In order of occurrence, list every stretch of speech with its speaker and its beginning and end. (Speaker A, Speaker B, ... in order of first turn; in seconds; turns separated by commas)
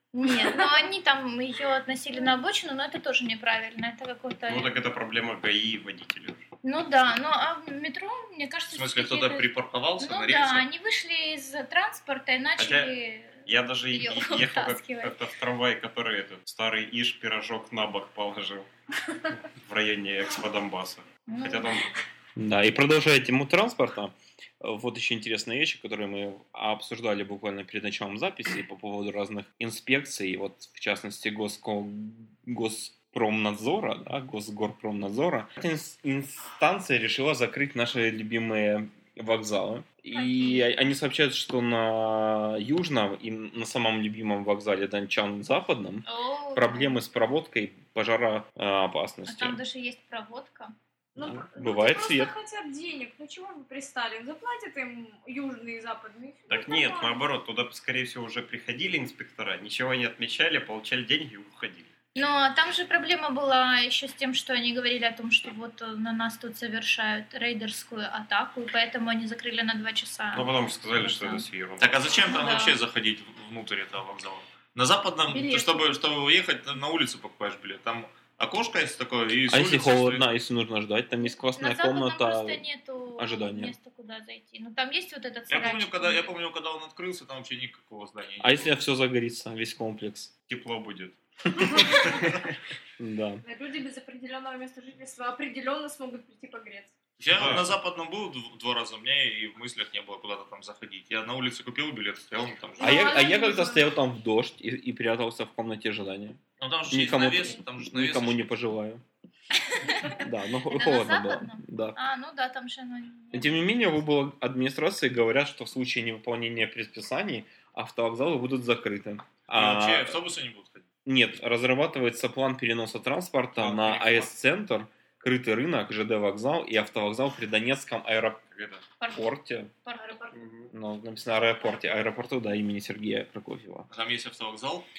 Speaker A: 0.1-4.7, Speaker B: 4.5-6.5, Speaker A: 6.6-15.2, Speaker C: 8.7-10.7, Speaker B: 12.6-12.9, Speaker B: 13.4-18.7, Speaker B: 19.4-21.9, Speaker A: 21.3-21.7, Speaker D: 22.4-49.6, Speaker A: 40.1-40.7, Speaker A: 46.0-47.0, Speaker A: 49.2-50.7, Speaker E: 51.1-57.2, Speaker D: 51.2-52.3, Speaker B: 56.5-61.9, Speaker A: 62.1-71.4, Speaker B: 70.3-72.0, Speaker C: 71.8-80.2, Speaker A: 72.2-72.8, Speaker E: 75.3-76.0, Speaker D: 79.5-82.6, Speaker A: 81.2-86.3, Speaker D: 83.2-83.7, Speaker C: 85.5-88.7, Speaker D: 88.4-90.3, Speaker B: 90.5-91.2, Speaker D: 91.6-91.9, Speaker B: 91.7-92.3, Speaker D: 93.0-93.4, Speaker E: 93.4-96.9, Speaker C: 97.2-103.1, Speaker B: 97.3-97.7, Speaker E: 102.8-104.0, Speaker D: 102.8-106.4, Speaker C: 106.6-108.4, Speaker D: 106.9-109.0, Speaker A: 109.8-113.7, Speaker D: 110.1-112.0, Speaker D: 113.3-120.2, Speaker C: 119.5-120.8, Speaker D: 121.0-128.4, Speaker C: 123.5-124.3, Speaker B: 128.5-128.8, Speaker A: 129.0-129.3, Speaker D: 129.1-129.7, Speaker A: 129.8-130.2, Speaker E: 130.0-130.3, Speaker B: 130.3-130.7, Speaker D: 130.7-133.9, Speaker C: 133.9-134.8